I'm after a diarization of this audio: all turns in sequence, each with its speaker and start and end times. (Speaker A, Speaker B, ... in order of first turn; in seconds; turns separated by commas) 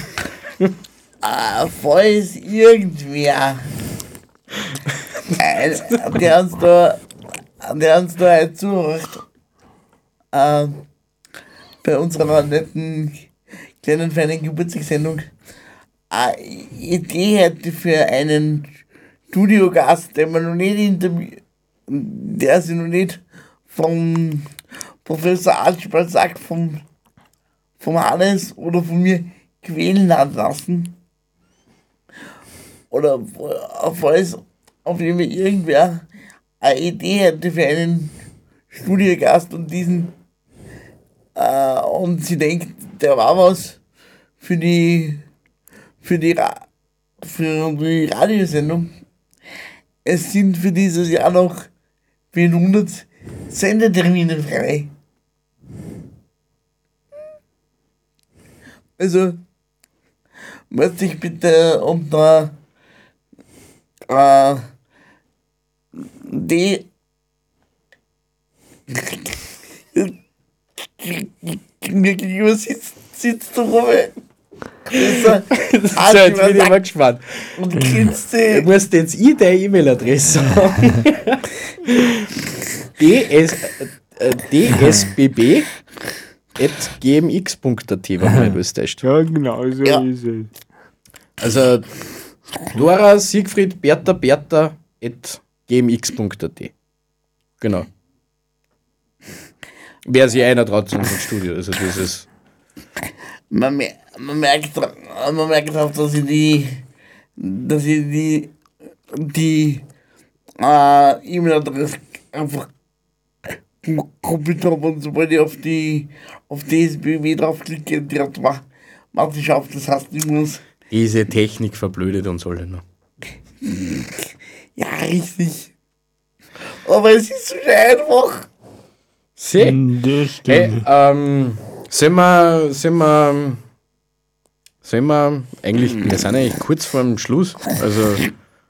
Speaker A: 1.2-3.6, Speaker A: 5.3-7.0, Speaker A: 7.6-9.2, Speaker A: 10.3-10.8, Speaker A: 11.8-13.2, Speaker A: 13.8-15.2, Speaker A: 16.1-18.7, Speaker A: 19.3-24.5, Speaker A: 25.0-26.8, Speaker A: 27.8-30.9, Speaker A: 32.9-36.0, Speaker A: 36.6-38.1, Speaker A: 38.7-40.1, Speaker A: 41.4-43.8, Speaker A: 44.4-45.2, Speaker A: 46.0-46.6, Speaker A: 47.2-48.9, Speaker A: 50.0-51.7, Speaker A: 52.3-54.9, Speaker A: 59.0-59.4, Speaker A: 60.7-62.5, Speaker A: 64.1-64.6, Speaker A: 66.2-66.8, Speaker A: 71.0-74.1, Speaker A: 74.9-76.8, Speaker B: 75.2-77.6, Speaker A: 77.6-78.7, Speaker B: 78.5-82.1, Speaker B: 83.0-85.7, Speaker B: 86.6-89.0, Speaker C: 89.0-90.4, Speaker B: 91.4-91.9, Speaker B: 92.7-96.7, Speaker B: 97.6-97.9, Speaker B: 100.0-102.3, Speaker A: 103.5-106.8, Speaker A: 107.4-108.5, Speaker A: 109.1-109.8, Speaker A: 110.6-112.7, Speaker A: 113.8-120.6, Speaker B: 120.9-122.8, Speaker A: 124.8-125.7, Speaker A: 126.8-128.5, Speaker B: 129.4-129.8, Speaker C: 129.6-130.7, Speaker B: 130.4-133.6, Speaker B: 134.8-138.3